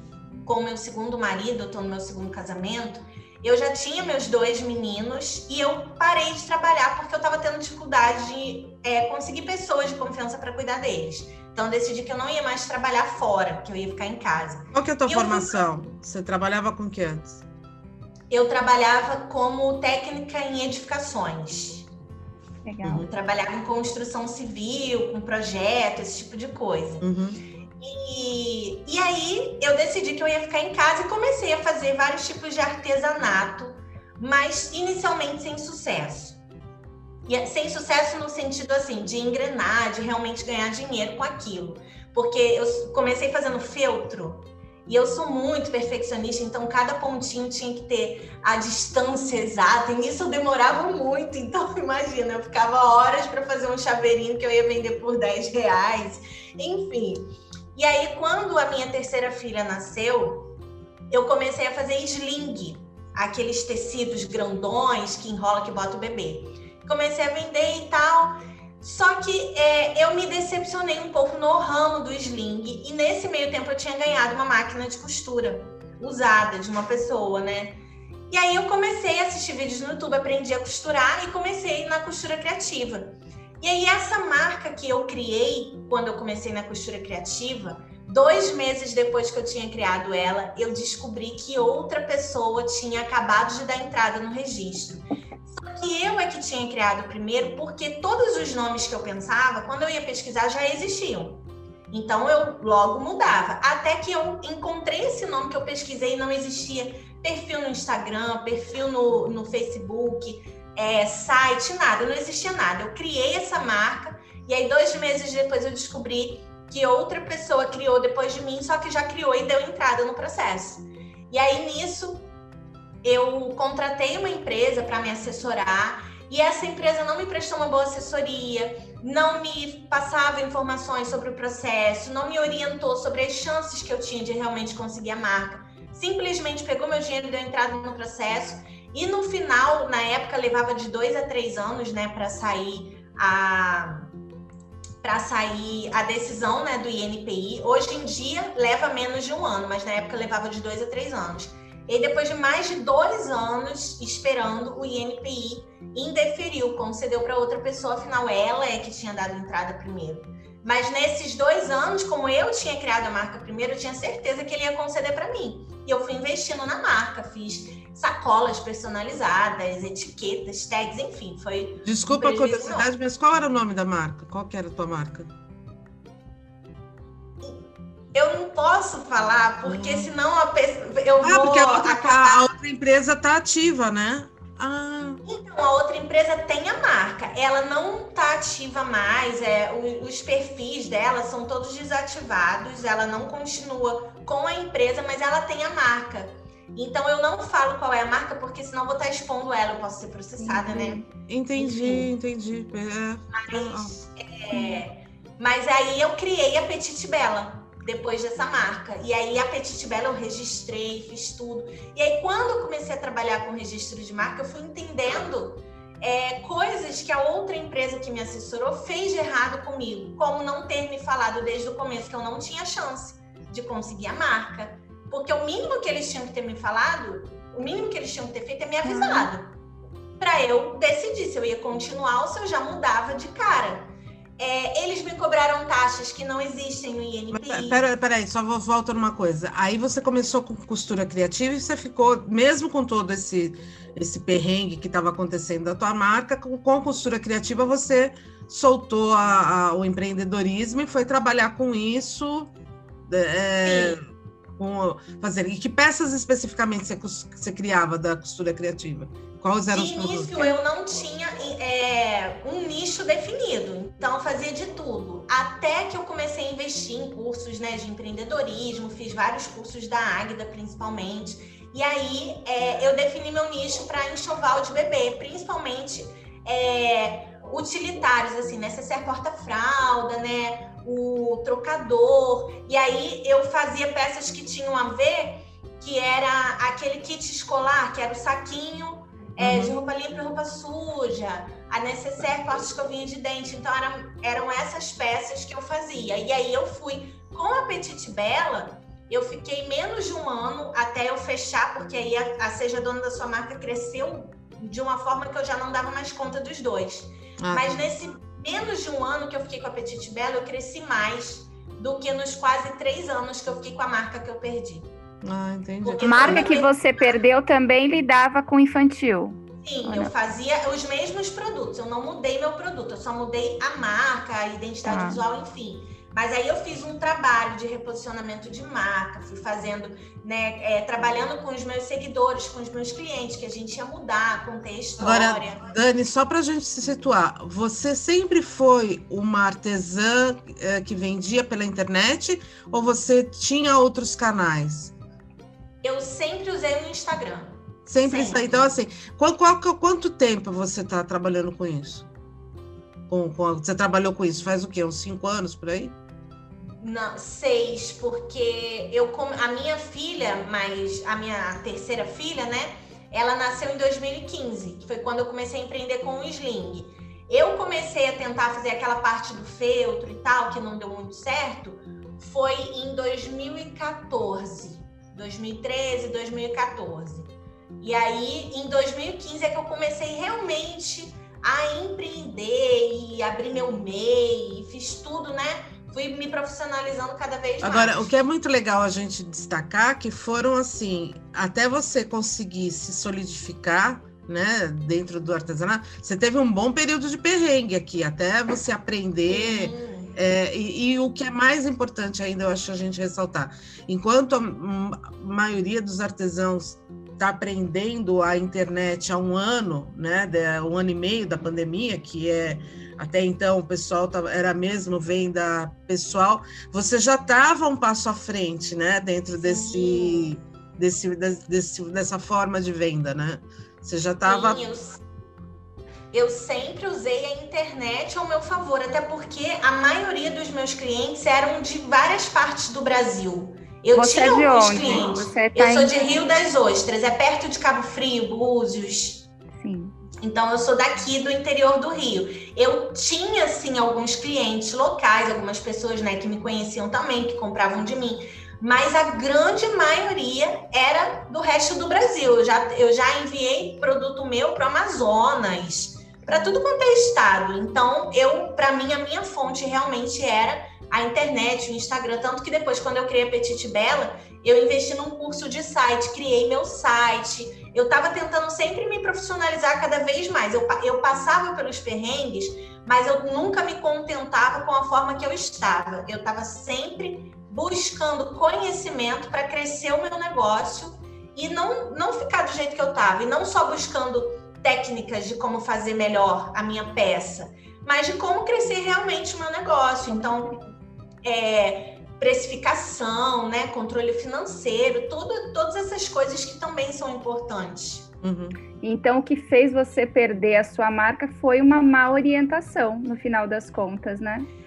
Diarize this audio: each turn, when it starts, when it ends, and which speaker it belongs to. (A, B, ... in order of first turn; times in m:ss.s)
0:00.4-0:15.6 A
0:14.7-0:17.4 B
0:18.3-0:21.9 A
0:22.6-0:23.0 C
0:22.9-0:27.1 A
0:27.0-0:27.4 B
0:27.8-0:36.4 A
0:37.2-1:00.5 A
1:01.1-2:02.3 A
2:03.0-2:24.1 A
2:25.0-2:52.9 A
2:51.8-2:55.3 B
2:57.4-3:02.4 A
2:59.6-3:00.1 B
3:01.2-3:05.2 B
3:05.2-3:21.0 A
3:20.4-3:21.0 C
3:21.3-3:24.0 B
3:21.5-3:22.1 A
3:23.3-3:49.6 A
3:24.5-3:24.8 C
3:48.8-3:49.3 C
3:50.2-3:57.8 A
3:57.3-4:12.5 B
4:13.1-4:14.0 B
4:13.6-4:14.0 A
4:14.6-4:20.5 B
4:19.7-5:14.9 A
4:49.4-4:49.7 B
5:07.4-5:07.8 B
5:15.2-5:16.5 B
5:15.8-5:16.7 A
5:16.0-5:20.1 C
5:19.6-5:35.6 A
5:24.8-5:25.2 C
5:35.0-5:44.9 B
5:45.8-5:48.7 A
5:47.9-5:52.1 B
5:53.1-5:56.0 B
5:56.8-6:28.1 A
6:27.6-7:04.6 B
6:39.3-6:40.2 A
6:59.4-7:00.3 A
7:04.2-7:05.0 A
7:06.1-7:19.3 A
7:13.9-7:15.9 C
7:19.6-7:19.9 C
7:20.2-8:10.5 A
7:36.2-7:36.6 C
8:10.1-8:10.5 C
8:11.2-8:18.1 A
8:18.2-8:18.6 B
8:18.8-8:24.5 C